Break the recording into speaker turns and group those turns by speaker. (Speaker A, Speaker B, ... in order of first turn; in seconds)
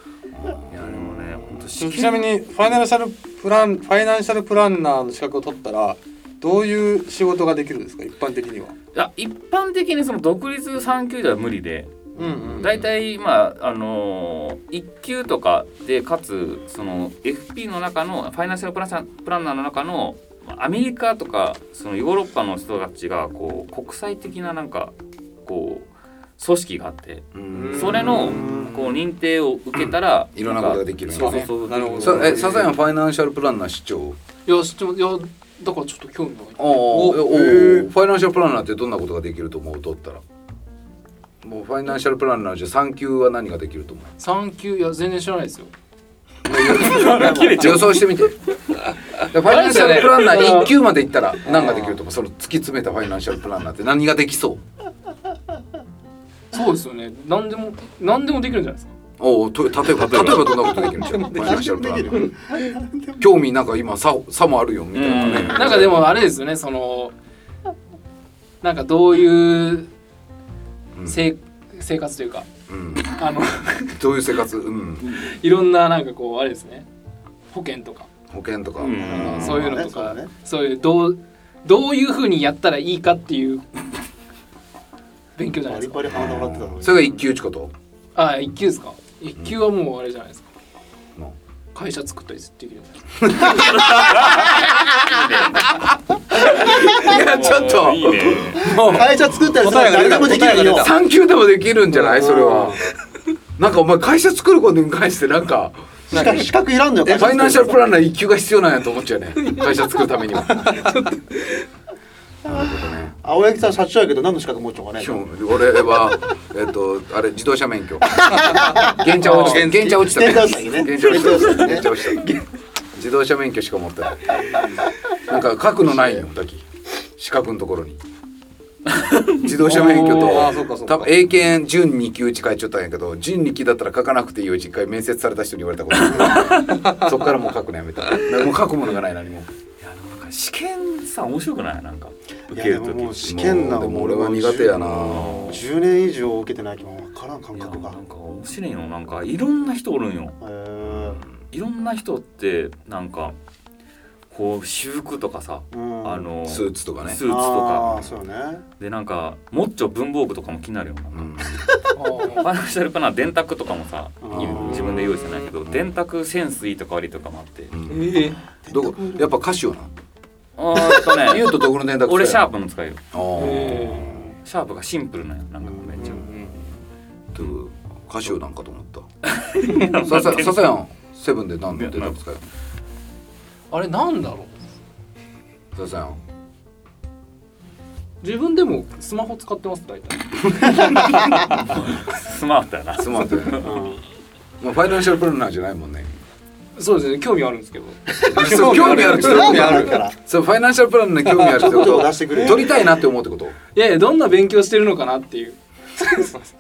Speaker A: 0.3-0.9, 27.4-28.0, 29.7-34.2, 36.6-40.2, 41.4-44.1, 46.5-48.4, 49.3-54.6, 59.2-62.3, 63.2-66.1, 71.0-71.2, 72.7-73.1, 73.9-75.0, 78.3-79.6, 86.1-87.7, 93.3-94.1, 96.3-99.1, 100.7-102.8, 103.6-106.2, 107.1-110.8, 112.5-113.1, 115.0-122.3, 122.9-124.2, 125.3-126.6, 127.2-128.0, 129.4-139.5, 143.3-145.6, 150.8-151.4, 156.4-157.2, 161.1-161.6, 164.3-165.0, 167.7-169.9, 170.8-172.4, 173.1-174.3, 177.3-179.1, 179.9-182.4, 185.8-186.2, 193.0-193.7, 194.6-196.1, 198.3-203.6
Speaker B: 0.7-2.3, 8.9-32.6, 46.5-48.1, 64.9-65.8, 78.8-79.5, 93.6-95.8, 96.4-99.1, 128.9-129.5, 136.1-136.8, 139.8-143.4, 145.1-145.6, 147.6-150.4, 151.5-153.3, 154.3-158.2, 158.8-161.6, 162.3-167.7, 170.6-173.0, 174.4-176.2, 179.2-180.6, 181.8-182.2, 191.6-193.8
Speaker C: 1.8-8.8, 12.2-12.8, 27.5-28.8, 31.1-32.8, 36.9-37.9, 51.5-52.0, 60.5-62.2, 99.0-100.9, 101.9-102.2, 106.1-106.4, 107.0-107.7, 119.2-120.1, 129.8-131.1, 145.1-145.5, 164.9-165.5, 176.0-176.6, 198.4-200.0, 201.3-202.7
Speaker D: 12.2-12.6, 47.0-47.7, 61.3-63.3, 78.9-80.3, 85.7-87.1, 98.6-100.9, 102.0-102.8, 106.1-107.8, 113.2-115.2, 118.1-119.1, 119.7-121.9, 136.1-136.5, 142.5-148.0, 150.4-151.2, 155.7-156.3, 157.2-158.6, 164.2-165.0, 168.7-169.3, 193.6-194.0, 198.1-200.1, 201.5-202.9
Speaker E: 34.5-36.7, 44.2-45.7, 46.6-47.7, 49.4-50.7, 56.5-58.9, 65.5-67.1, 68.6-69.9, 71.1-72.5, 73.0-73.9, 75.0-76.9, 77.5-78.1, 79.2-83.7, 85.4-86.1, 88.2-90.5, 91.7-93.8, 109.4-111.7, 119.2-119.7, 129.7-130.4, 161.9-162.5, 167.9-168.4, 173.4-174.1, 183.7-184.7, 188.2-191.0, 196.8-198.0, 203.7-206.3